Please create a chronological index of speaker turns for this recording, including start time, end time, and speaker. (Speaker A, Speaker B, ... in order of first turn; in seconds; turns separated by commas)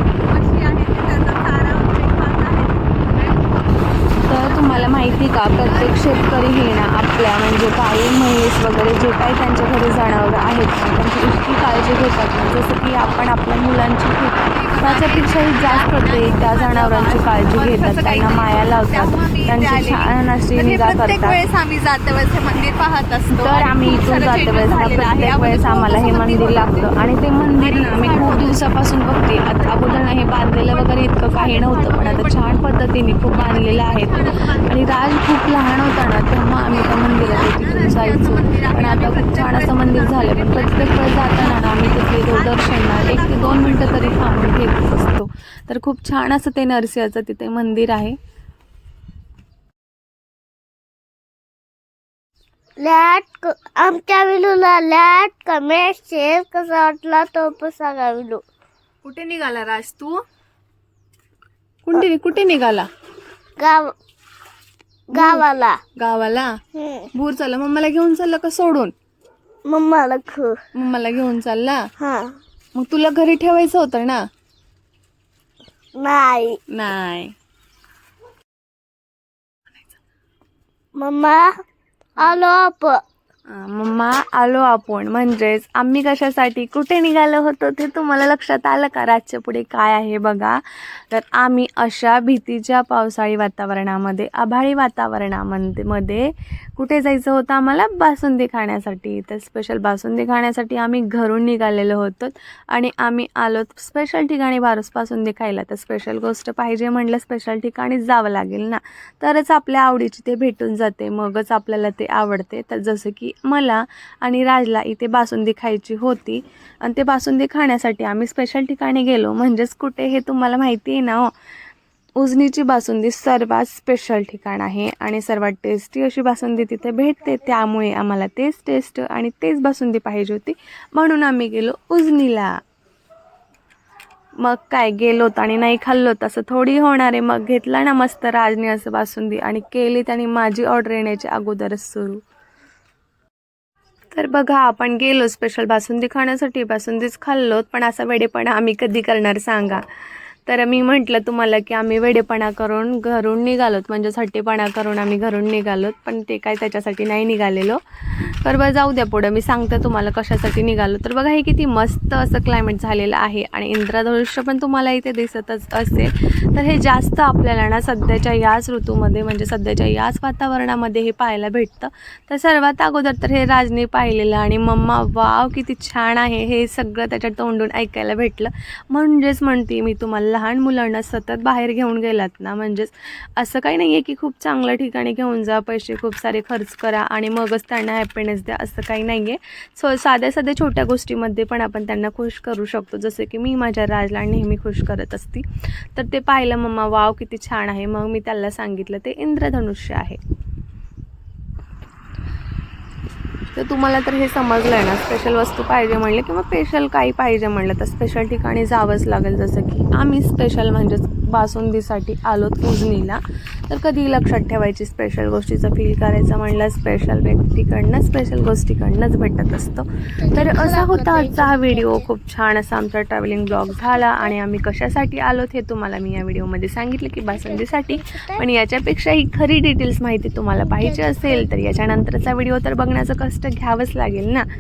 Speaker A: 0.2-6.7, Speaker B: 4.3-21.4, Speaker A: 14.4-26.9, Speaker B: 23.3-48.2, Speaker A: 27.6-32.6, Speaker A: 33.2-35.3, Speaker A: 36.6-44.3, Speaker C: 52.8-58.4, Speaker B: 59.0-60.2, Speaker B: 61.9-62.9, Speaker C: 63.6-64.0, Speaker C: 65.1-65.8, Speaker B: 65.2-65.5, Speaker B: 66.0-66.6, Speaker C: 66.8-67.1, Speaker B: 67.1-68.9, Speaker C: 69.7-70.6, Speaker B: 70.8-71.9, Speaker C: 72.0-72.4, Speaker B: 72.8-74.2, Speaker C: 76.0-76.6, Speaker B: 76.7-77.3, Speaker C: 81.0-81.5, Speaker C: 82.2-83.0, Speaker B: 83.5-90.6, Speaker B: 91.1-121.3, Speaker B: 122.2-132.6, Speaker B: 134.4-142.2, Speaker B: 144.1-149.8, Speaker B: 150.5-200.2, Speaker B: 203.6-234.4, Speaker C: 220.2-222.0, Speaker C: 223.7-224.3, Speaker C: 227.3-228.4, Speaker C: 230.7-231.5